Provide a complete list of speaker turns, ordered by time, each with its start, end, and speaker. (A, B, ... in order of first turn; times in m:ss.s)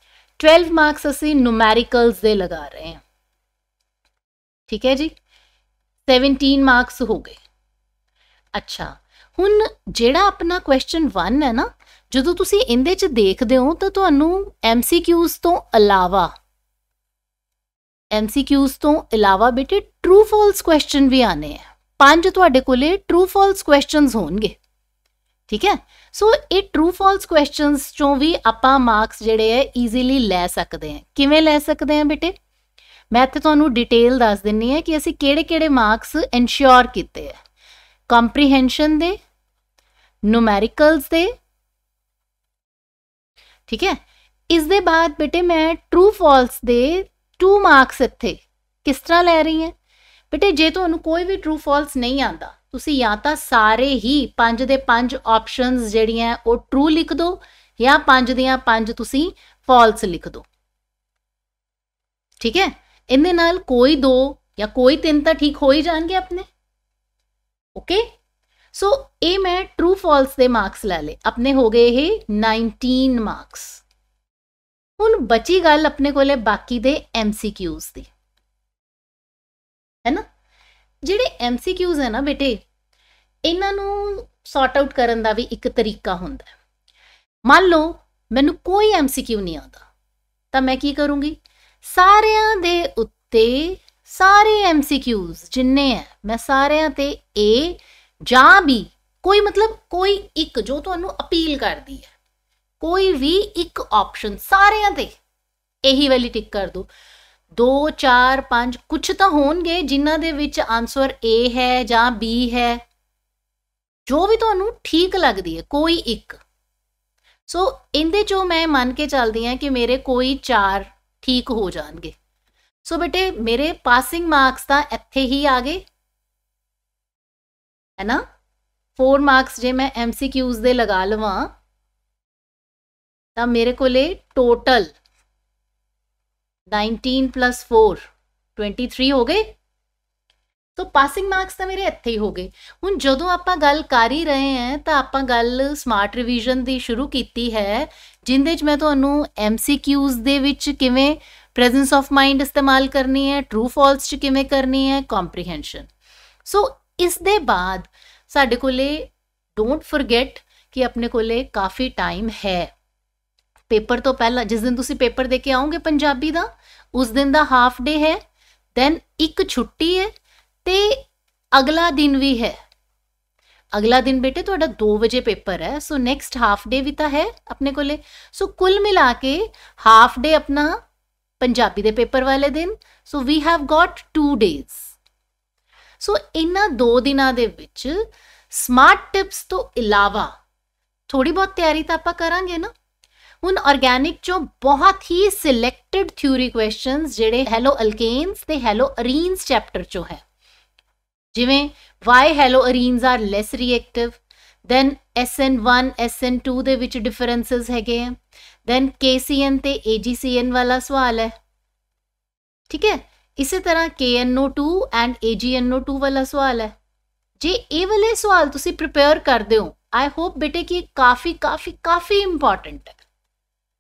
0:00.4-0:03.0 A
0:04.7-0:05.1 A
0:06.1-0:07.4 A
0:08.5-0:16.3 A
0:18.1-0:24.6 A
0:25.5-0:32.3 A
0:33.1-0:37.4 A
0:38.1-0:39.2 A
0:40.2-0:41.3 A
0:43.7-0:44.0 A
0:44.5-0:49.7 A
0:50.3-1:00.4 A
1:02.4-1:06.5 A
1:07.7-1:08.1 A
1:08.7-1:13.8 A
1:15.0-1:18.1 A
1:21.0-1:22.6 A
1:23.4-1:26.5 A
1:27.4-1:29.8 A
1:30.5-1:42.1 A
1:42.8-1:45.2 A
1:45.8-1:46.9 A
1:47.5-1:52.8 A
1:54.0-1:56.4 A
1:57.5-2:02.1 A
2:02.8-2:05.8 A
2:08.0-2:08.2 A
2:09.0-2:11.5 A
2:13.4-2:14.9 A
2:16.7-2:18.0 A
2:18.6-2:19.5 A
2:20.8-2:35.9 A
2:36.4-2:42.7 A
2:43.7-2:48.2 A
2:48.7-2:50.1 A
2:50.6-2:52.6 A
2:53.7-3:00.8 A
3:01.4-3:04.9 A
3:06.0-3:10.3 A
3:11.1-3:12.7 A
3:13.4-3:20.2 A
3:21.3-3:31.3 A
3:32.7-3:36.7 A
3:37.4-3:43.0 A